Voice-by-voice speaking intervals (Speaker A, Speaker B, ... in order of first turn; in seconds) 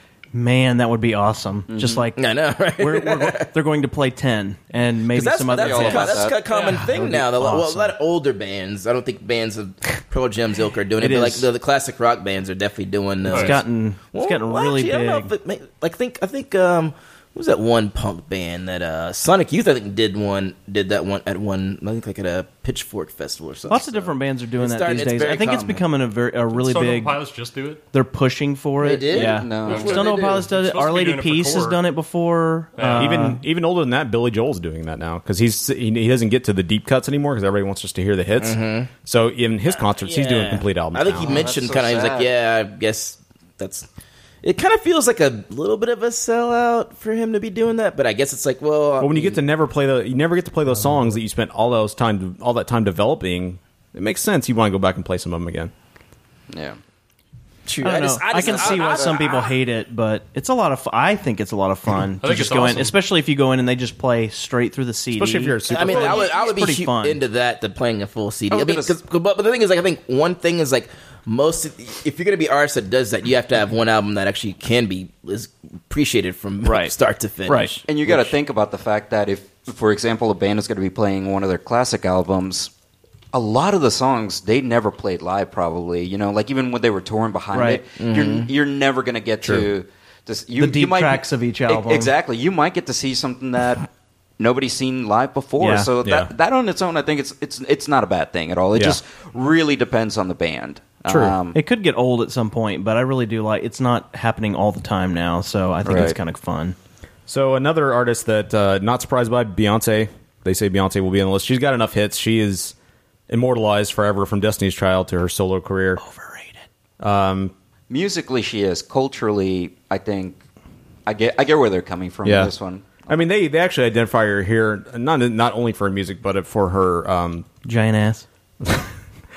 Speaker A: 0.3-2.2, 2.8-8.0, 11.0-11.5, 13.3-15.3, 23.7-27.1, 27.9-33.4, 57.8-67.2, 76.6-76.9, 77.5-77.8, 87.5-87.8, 90.6-92.1, 95.6-95.9, 101.5-106.8, 116.0-116.6, 127.6-128.2
Speaker B: 1.7-2.1, 5.5-6.4, 29.2-30.0, 41.2-42.3, 56.5-56.8, 68.5-69.0, 77.8-82.7, 83.3-93.9, 94.4-101.6, 105.8-106.2, 117.9-120.4, 121.0-123.0
Speaker C: 2.1-3.5, 5.1-25.8, 28.8-30.4, 38.4-38.9, 39.7-43.9, 44.4-49.4, 57.6-59.5, 65.7-77.7, 88.0-88.5
Speaker D: 6.5-6.8, 13.3-13.6, 26.6-27.8, 29.7-31.8, 32.8-33.2, 62.2-63.0
Speaker E: 32.9-41.4, 49.0-55.7, 65.1-66.3, 89.4-89.7, 96.0-96.3, 101.0-101.4, 107.3-112.7, 113.3-116.0, 117.0-117.5, 122.2-122.5, 123.1-127.5, 128.6-128.9